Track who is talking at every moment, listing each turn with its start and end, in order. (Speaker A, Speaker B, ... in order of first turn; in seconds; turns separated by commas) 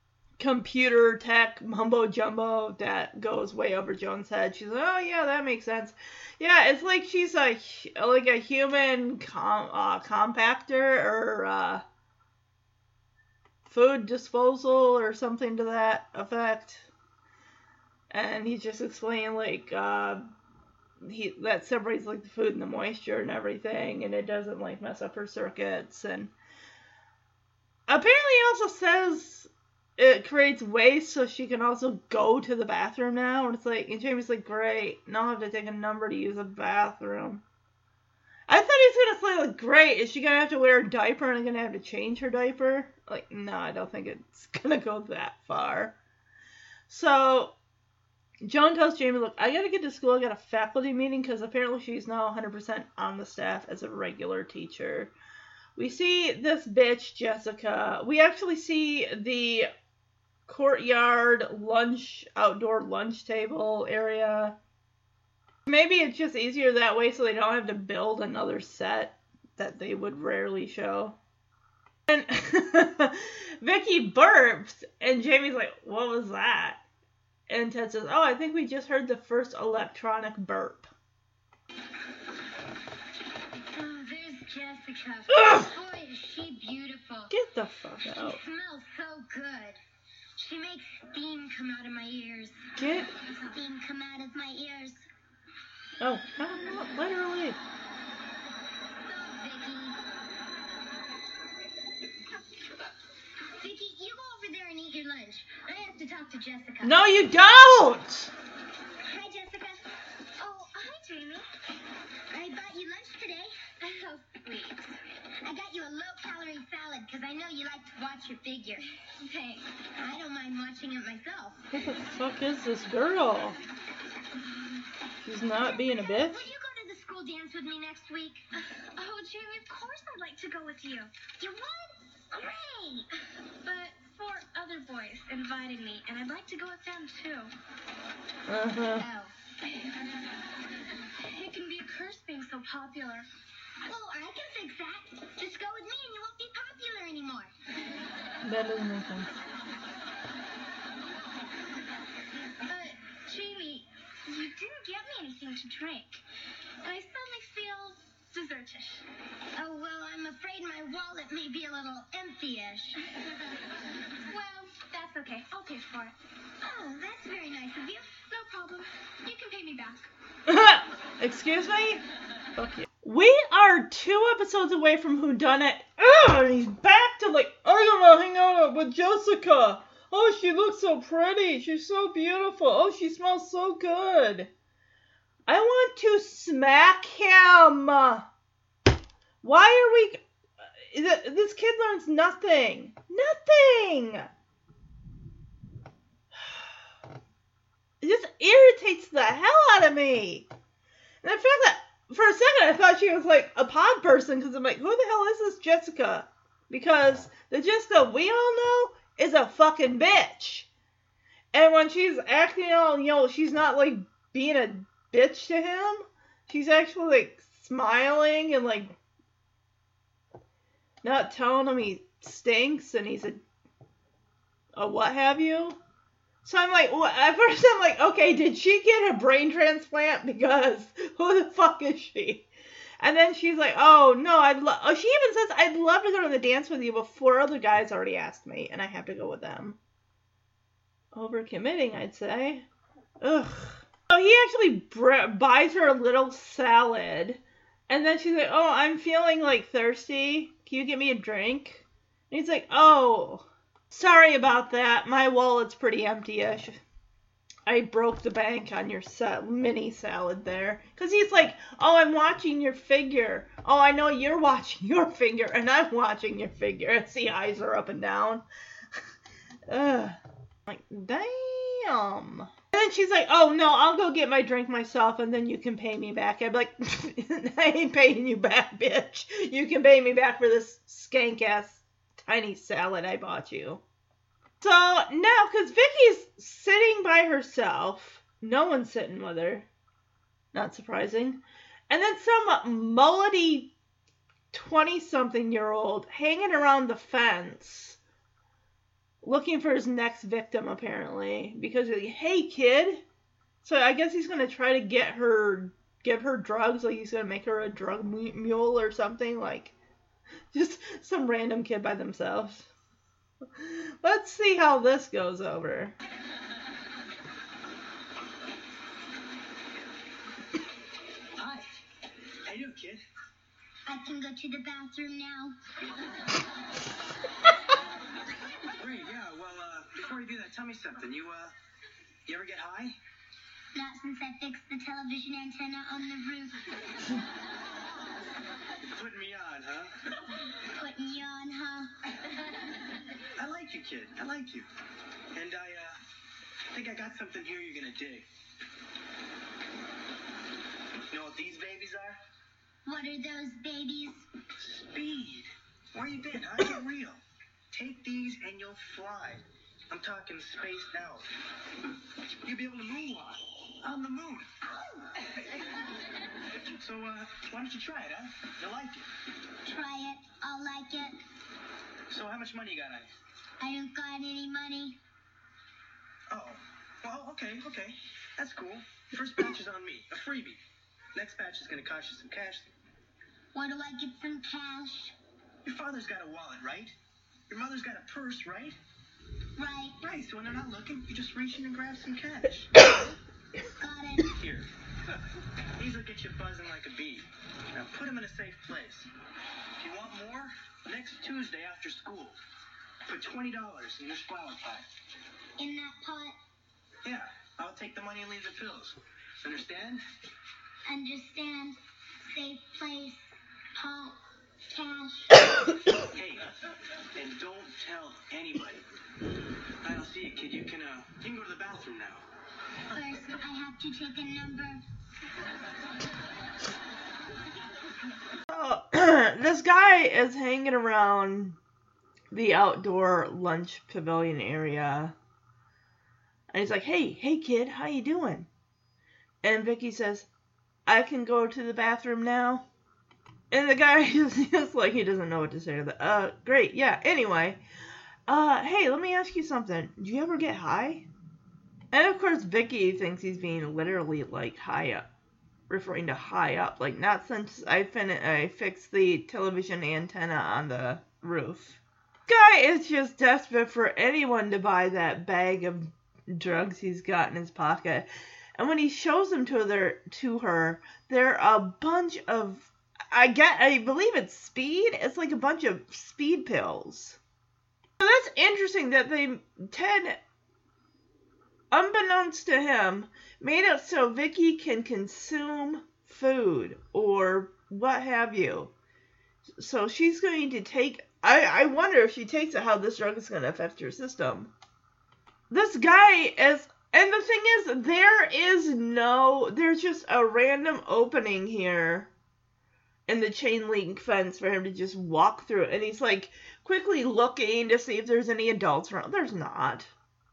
Speaker A: 0.4-11.8, Speaker A: 13.7-16.9, Speaker A: 18.1-20.3, Speaker A: 21.0-26.3, Speaker A: 27.9-37.4, Speaker A: 38.5-46.0, Speaker A: 46.9-47.5, Speaker A: 48.4-55.1, Speaker A: 55.8-59.7, Speaker A: 60.5-64.6, Speaker A: 65.7-71.2, Speaker A: 72.1-76.8, Speaker A: 77.5-80.9, Speaker B: 83.7-87.3, Speaker A: 85.3-85.7, Speaker A: 87.3-88.4, Speaker B: 88.2-89.8, Speaker B: 90.4-92.6, Speaker A: 92.8-93.1, Speaker B: 93.5-95.0, Speaker A: 96.0-97.6, Speaker B: 99.0-100.0, Speaker B: 103.6-107.0, Speaker A: 106.8-108.3, Speaker B: 109.1-109.8, Speaker C: 110.4-111.4, Speaker B: 112.3-113.5, Speaker C: 113.9-114.8, Speaker B: 115.4-118.8, Speaker C: 119.2-119.6, Speaker B: 120.0-121.7, Speaker A: 121.7-123.6, Speaker A: 125.2-126.5, Speaker B: 126.0-128.4, Speaker C: 128.9-131.1, Speaker B: 131.4-133.0, Speaker C: 133.6-137.5, Speaker A: 138.5-139.1, Speaker B: 139.0-139.3, Speaker C: 141.2-143.3, Speaker B: 143.9-147.5, Speaker A: 148.4-149.3, Speaker C: 152.7-156.2, Speaker C: 156.8-159.0, Speaker B: 159.6-163.0, Speaker C: 164.3-166.2, Speaker B: 166.6-168.2, Speaker C: 168.2-170.1, Speaker A: 170.5-172.0, Speaker A: 172.6-184.5, Speaker A: 185.5-188.3, Speaker A: 189.4-190.2, Speaker A: 190.8-194.3, Speaker A: 198.0-200.5, Speaker A: 201.2-210.7, Speaker A: 211.5-219.0, Speaker A: 221.0-223.4, Speaker A: 224.8-225.8, Speaker A: 226.4-232.5, Speaker A: 233.0-239.8, Speaker A: 241.1-242.7, Speaker A: 243.2-256.8, Speaker A: 257.7-268.4, Speaker A: 269.7-283.8, Speaker A: 284.6-289.7, Speaker A: 290.5-293.7, Speaker A: 294.5-298.0, Speaker A: 299.2-303.0, Speaker A: 303.6-309.8, Speaker A: 310.5-312.7, Speaker A: 313.5-315.9, Speaker D: 321.4-321.6, Speaker D: 322.5-323.0, Speaker B: 323.9-325.5, Speaker D: 328.8-331.5, Speaker D: 332.3-333.0, Speaker B: 333.8-336.6, Speaker D: 338.9-339.9, Speaker B: 340.7-341.9, Speaker D: 343.4-344.7, Speaker D: 345.3-345.9, Speaker D: 346.7-348.3, Speaker D: 351.1-352.2, Speaker B: 352.9-354.3, Speaker D: 354.6-357.2, Speaker D: 357.7-361.3, Speaker D: 362.4-364.5, Speaker D: 366.8-369.0, Speaker B: 369.6-371.1, Speaker D: 372.1-373.1, Speaker B: 373.6-375.0, Speaker D: 376.3-380.6, Speaker D: 381.1-382.7, Speaker B: 383.5-385.1, Speaker D: 385.6-386.9, Speaker D: 387.5-388.8, Speaker B: 389.6-390.0, Speaker D: 390.0-392.7, Speaker B: 393.8-394.3, Speaker D: 394.3-394.7, Speaker D: 395.8-399.1, Speaker D: 399.8-402.4, Speaker D: 403.1-404.9, Speaker B: 405.6-406.4, Speaker D: 407.0-410.0, Speaker B: 410.9-413.2, Speaker B: 413.8-415.7, Speaker D: 416.1-416.5, Speaker D: 417.1-418.9, Speaker D: 419.8-422.2, Speaker B: 422.9-424.8, Speaker A: 428.5-431.6, Speaker A: 432.3-435.1, Speaker A: 436.5-438.5, Speaker A: 439.4-440.3, Speaker A: 440.9-442.7, Speaker A: 443.5-447.6, Speaker A: 448.3-451.1, Speaker A: 451.9-455.1, Speaker A: 455.7-477.2, Speaker A: 478.0-480.2, Speaker A: 481.7-488.7, Speaker A: 489.6-494.5, Speaker A: 495.5-502.1, Speaker A: 503.1-509.9